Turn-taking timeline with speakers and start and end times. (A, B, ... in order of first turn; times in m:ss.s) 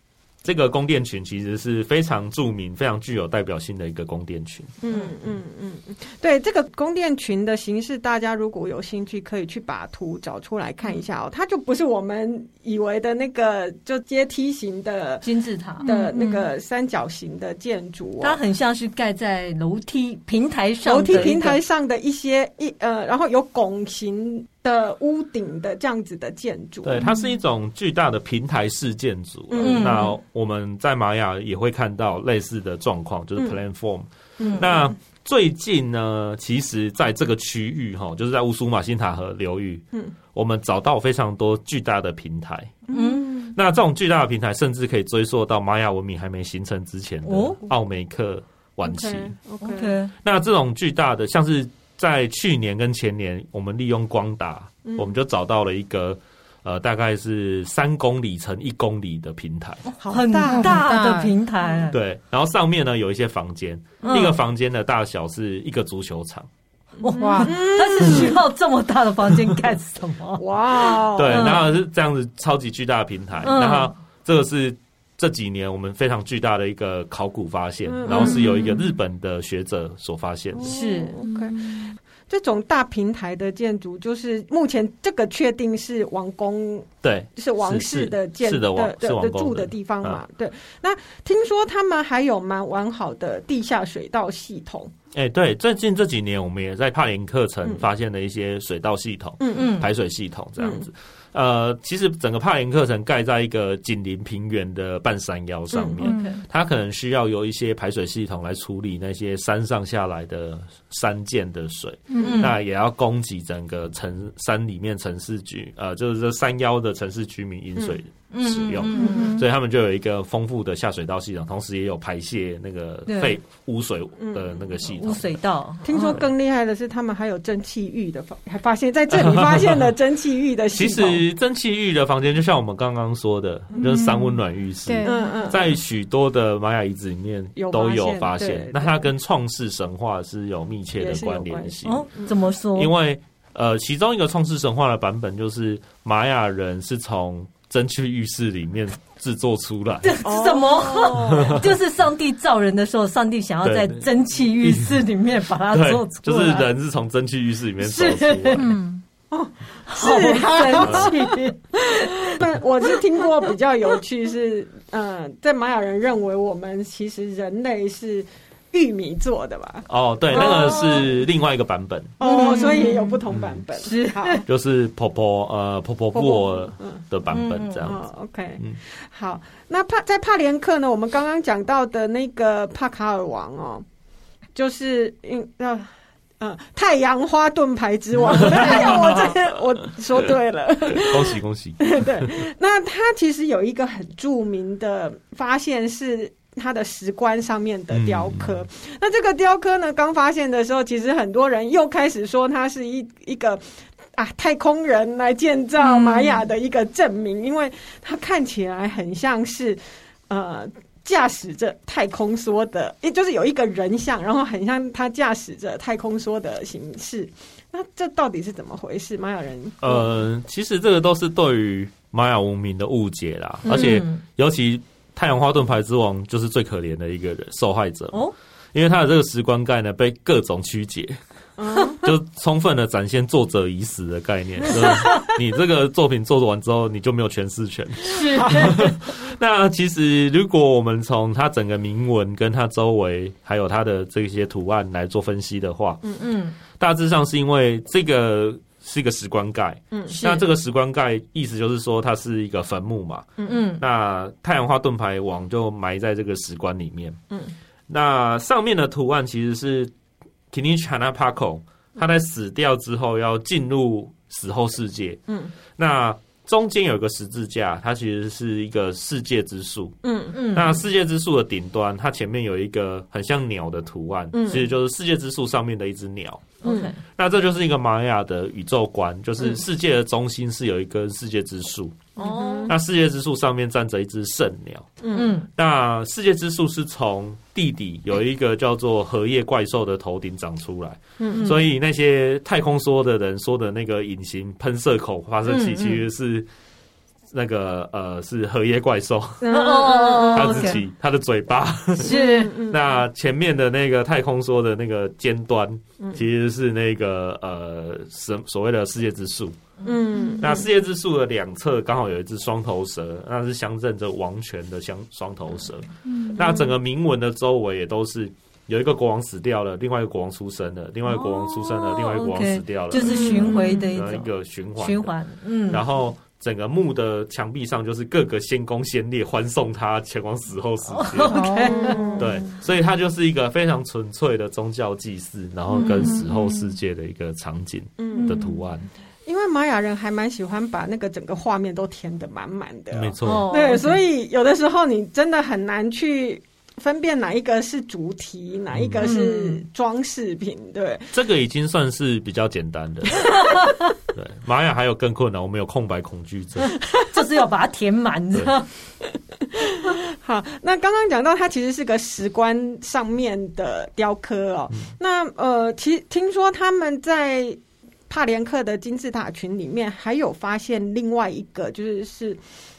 0:00.4-0:04.8 A
0:04.8-0:15.3 B
0:15.2-0:15.9 C
0:15.8-0:18.4 B
0:15.8-0:16.5 D
0:18.2-0:21.6 C
0:20.8-0:27.0 B
0:26.8-0:42.8 A
0:29.5-0:30.1 B
0:29.6-0:30.2 C
0:34.4-0:34.9 B
0:42.9-0:43.5 B
0:42.9-0:43.4 C
0:43.5-0:49.3 A
0:47.3-0:47.6 C
0:48.8-0:50.0 B
0:49.6-0:50.1 C
0:50.2-0:59.9 A
0:54.8-0:55.1 B
1:00.0-1:00.9 B
1:00.0-1:02.0 C
1:00.4-1:01.3 D
1:01.9-1:06.5 A
1:04.0-1:04.4 C
1:07.0-1:11.7 C
1:07.0-1:08.4 B
1:07.2-1:07.6 D
1:10.4-1:11.6 B
1:11.2-1:20.7 A
1:13.4-1:13.9 C
1:17.9-1:18.8 B
1:20.6-1:34.9 B
1:20.7-1:21.2 C
1:21.2-1:22.0 D
1:27.0-1:30.2 A
1:35.1-2:05.3 A
1:39.4-1:39.8 B
1:39.5-1:39.9 C
1:40.6-1:40.8 B
1:45.7-1:46.0 B
1:46.0-1:46.4 D
1:46.0-1:46.4 C
1:52.1-1:52.5 D
1:52.2-1:52.6 C
1:58.3-1:59.4 C
1:58.9-1:59.5 D
2:03.1-2:03.4 C
2:04.2-2:04.5 B
2:04.8-2:06.2 C
2:05.8-2:11.3 B
2:09.1-2:09.9 A
2:10.7-2:22.1 A
2:13.8-2:15.6 D
2:15.0-2:15.6 B
2:17.6-2:19.0 B
2:21.0-2:22.3 B
2:21.8-2:22.9 C
2:22.8-2:30.2 A
2:30.0-2:36.7 C
2:30.2-2:31.6 B
2:31.4-2:31.7 A
2:33.6-2:34.1 A
2:34.6-2:35.0 A
2:35.7-2:38.8 A
2:37.8-2:38.7 C
2:38.6-2:39.0 D
2:39.3-2:51.0 B
2:39.9-2:42.3 C
2:40.8-2:41.1 A
2:49.9-2:52.2 A
2:50.3-2:51.1 C
2:52.2-2:54.4 B
2:52.2-2:53.2 C
2:53.3-2:53.6 A
2:53.8-2:54.4 C
2:54.5-2:58.0 A
2:56.1-2:57.0 B
2:57.3-2:57.9 C
2:57.8-3:03.8 B
3:04.6-3:05.9 B
3:06.4-3:23.6 B
3:08.2-3:09.5 A
3:10.9-3:12.3 A
3:17.9-3:18.7 A
3:24.1-3:40.1 B
3:25.9-3:26.4 D
3:39.8-3:48.2 A
3:43.7-3:44.2 C
3:48.7-3:51.2 A
3:51.6-3:52.1 B
3:51.9-4:06.0 A
3:58.0-3:58.9 C
4:06.2-4:06.6 C
4:06.7-4:17.2 A
4:09.9-4:10.2 B
4:10.1-4:10.4 C
4:13.4-4:13.8 C
4:17.9-4:19.9 A
4:20.5-4:25.2 A
4:25.3-4:25.5 B
4:25.8-4:42.1 A
4:30.0-4:30.4 B
4:30.3-4:30.8 C
4:34.3-4:34.7 B
4:36.6-4:37.0 C
4:36.6-4:36.9 B
4:42.2-4:42.7 C
4:42.2-4:42.8 B
4:42.7-4:56.5 A
4:45.0-4:45.4 B
4:45.1-4:45.5 C
4:51.2-4:51.5 B
4:55.5-4:56.0 C
4:57.3-4:59.6 A
4:59.4-5:00.8 B
4:59.5-5:00.8 C
5:00.3-5:09.6 A
5:02.0-5:02.6 C
5:02.0-5:03.0 B
5:09.8-5:10.7 B
5:10.2-5:10.5 D
5:10.4-5:25.1 A
5:16.2-5:16.4 D
5:16.4-5:16.7 B
5:21.1-5:25.8 C
5:23.3-5:23.8 D
5:25.7-5:31.6 A
5:30.9-5:32.1 C
5:31.2-5:32.4 D
5:31.6-5:32.5 B
5:32.2-5:38.9 A
5:35.8-5:36.7 D
5:35.8-5:36.2 C
5:38.0-5:38.5 B
5:38.2-5:38.6 D
5:39.3-5:51.1 B
5:42.9-5:43.5 A
5:43.2-5:44.0 C
5:48.7-5:49.1 A
5:49.0-5:49.6 C
5:51.1-5:53.5 A
5:54.1-5:56.8 A
5:57.0-5:58.7 C
5:59.5-6:12.4 B